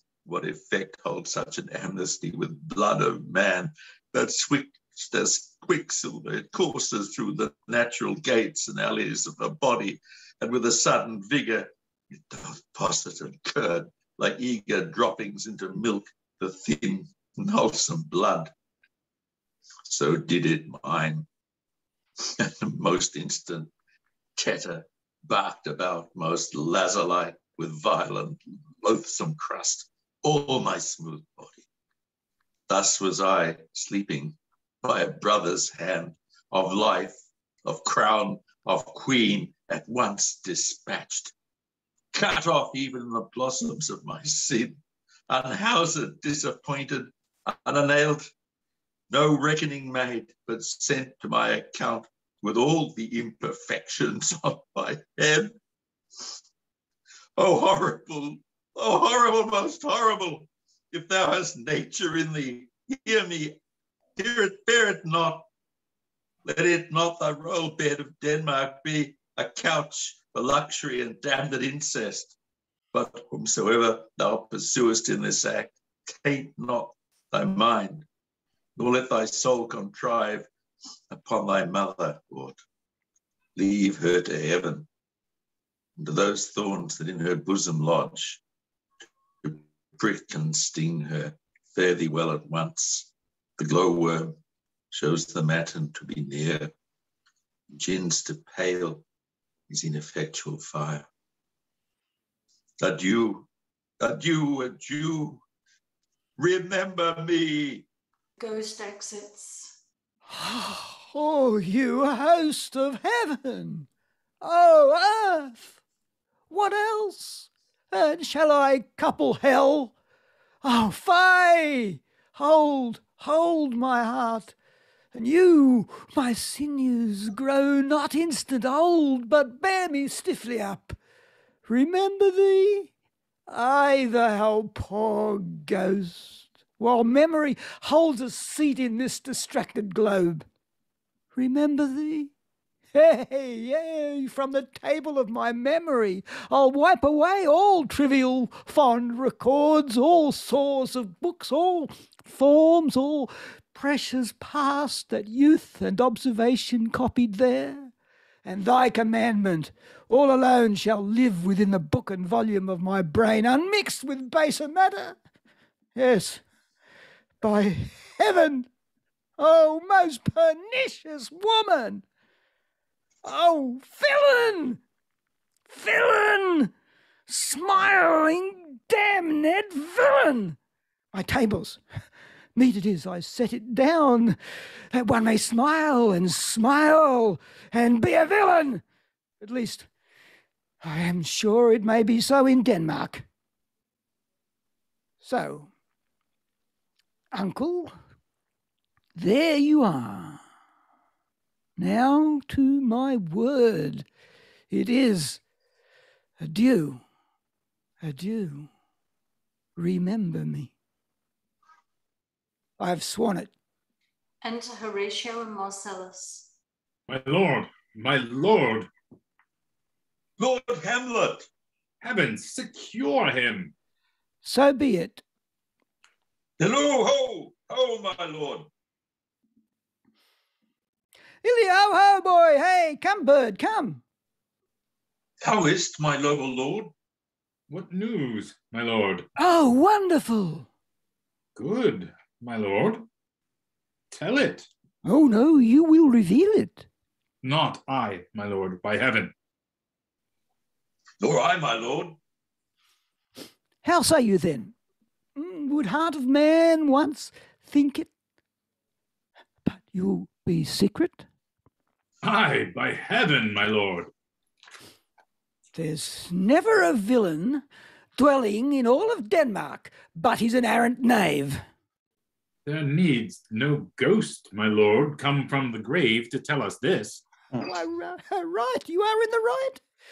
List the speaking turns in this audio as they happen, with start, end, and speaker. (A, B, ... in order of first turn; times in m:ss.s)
0:00.2-0:18.5 A
0:19.9-0:21.3 A
0:22.2-0:23.7 A
0:24.4-0:31.6 A
0:32.7-0:41.3 A
0:42.1-0:44.8 A
0:45.3-0:48.3 A
0:49.1-0:55.6 A
0:57.4-1:03.6 A
1:04.2-1:05.5 A
1:06.4-1:12.4 A
1:12.9-1:18.1 A
1:18.8-1:20.5 A
1:21.1-1:22.6 A
1:23.6-1:24.9 A
1:26.0-1:28.4 A
1:29.4-1:34.4 A
1:34.9-1:36.7 A
1:37.7-1:39.0 A
1:39.7-1:41.1 A
1:42.8-1:43.5 A
1:44.0-1:45.4 A
1:46.4-1:47.9 A
1:48.4-1:49.8 B
1:50.3-1:53.9 C
1:54.4-1:55.8 C
1:56.5-1:59.9 C
2:00.6-2:04.6 C
2:05.1-2:11.0 C
2:11.7-2:12.9 C
2:13.5-2:20.5 C
2:21.3-2:22.3 C
2:22.9-2:37.9 C
2:38.4-2:45.2 C
2:46.0-2:46.4 C
2:47.4-2:48.7 C
2:49.4-2:52.0 C
2:53.2-2:54.8 C
2:55.7-2:56.7 C
2:57.3-3:00.6 C
3:01.1-3:01.8 C
3:02.6-3:04.4 C
3:04.9-3:08.8 C
3:09.4-3:09.9 C
3:10.8-3:13.3 C
3:15.2-3:15.7 C
3:17.3-3:18.0 C
3:19.2-3:20.4 C
3:21.8-3:24.1 C
3:24.7-3:25.4 C
3:26.4-3:27.0 C
3:28.0-3:28.7 C
3:29.8-3:30.7 C
3:32.8-3:33.5 C
3:34.4-3:36.5 B
3:37.1-3:38.9 D
3:40.4-3:41.5 A
3:42.0-3:43.7 D
3:44.4-3:45.2 C
3:46.6-3:48.7 A
3:51.4-3:54.0 C
3:55.4-3:56.9 A
3:57.7-3:59.3 D
3:59.4-4:00.7 C
4:01.6-4:03.1 D
4:04.1-4:04.7 D
4:05.0-4:06.9 C
4:07.4-4:09.3 D
4:11.2-4:12.2 A
4:13.8-4:14.8 C
4:15.4-4:18.1 C
4:19.6-4:21.3 C
4:22.2-4:24.1 D
4:25.7-4:27.6 C
4:28.2-4:31.6 C
4:32.7-4:37.2 D
4:37.6-4:39.8 C